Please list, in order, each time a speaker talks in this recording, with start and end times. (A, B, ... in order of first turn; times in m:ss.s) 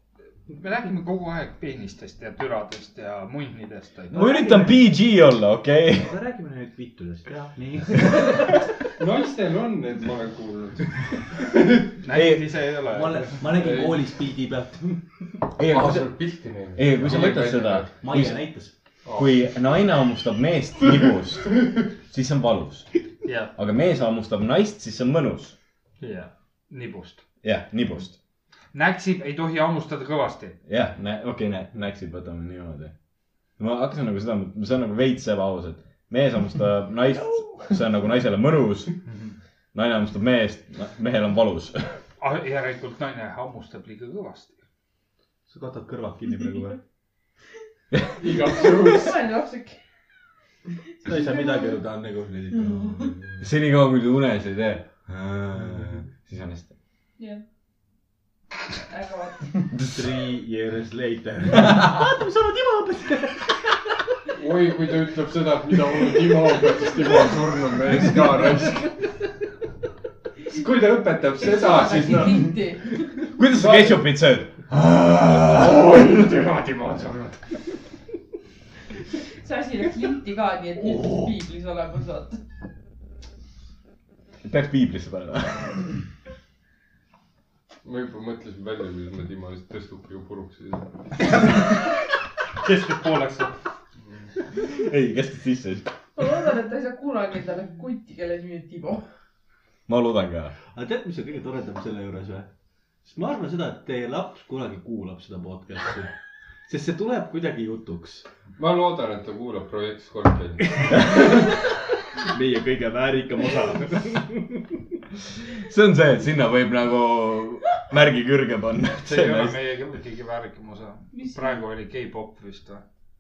0:00.5-0:04.2 A
0:04.1-0:04.9 B
0:04.1-0:06.1 C
0:06.0-0:08.5 B
0:09.0-0:11.0 D
0:12.0-0:13.4 A
0:12.1-0:12.5 C
0:12.9-0:15.1 B
0:13.5-0:14.0 D
0:15.6-0:16.2 C
0:15.6-0:17.9 D
0:16.8-0:18.4 C
0:18.0-0:18.7 B
0:19.0-0:19.4 D
0:19.2-0:22.9 C
0:23.2-0:23.5 A
0:23.6-0:25.6 C
0:26.0-0:27.2 A
0:27.4-0:28.2 C
0:28.7-0:30.6 A
0:30.7-0:32.9 C
0:33.6-0:39.0 C
0:39.7-0:42.0 C
0:42.2-0:44.6 A
0:45.5-0:46.8 B
0:48.2-0:49.2 D
0:48.3-0:49.8 E
0:51.0-0:51.8 E
0:51.0-0:53.5 B
0:52.6-0:53.1 E
0:53.4-0:56.7 C
0:57.2-0:57.4 E
0:58.9-0:59.5 E
0:59.9-1:03.7 B
1:01.6-1:01.9 C
1:04.4-1:08.9 D
1:10.5-1:12.6 D
1:11.4-1:13.0 E
1:13.4-1:15.6 C
1:13.5-1:14.1 D
1:15.4-1:17.5 D
1:19.4-1:22.4 E
1:24.4-1:25.9 C
1:27.8-1:30.9 D
1:31.3-1:31.8 A
1:32.6-1:33.6 A
1:34.6-1:35.9 C
1:36.2-1:39.0 E
1:39.9-1:40.6 C
1:40.7-1:42.5 B
1:43.0-1:46.1 B
1:46.7-1:48.3 B
1:48.6-1:51.2 D
1:52.3-1:54.6 B
1:55.5-1:59.8 C
1:59.0-2:02.8 A
2:01.1-2:01.6 E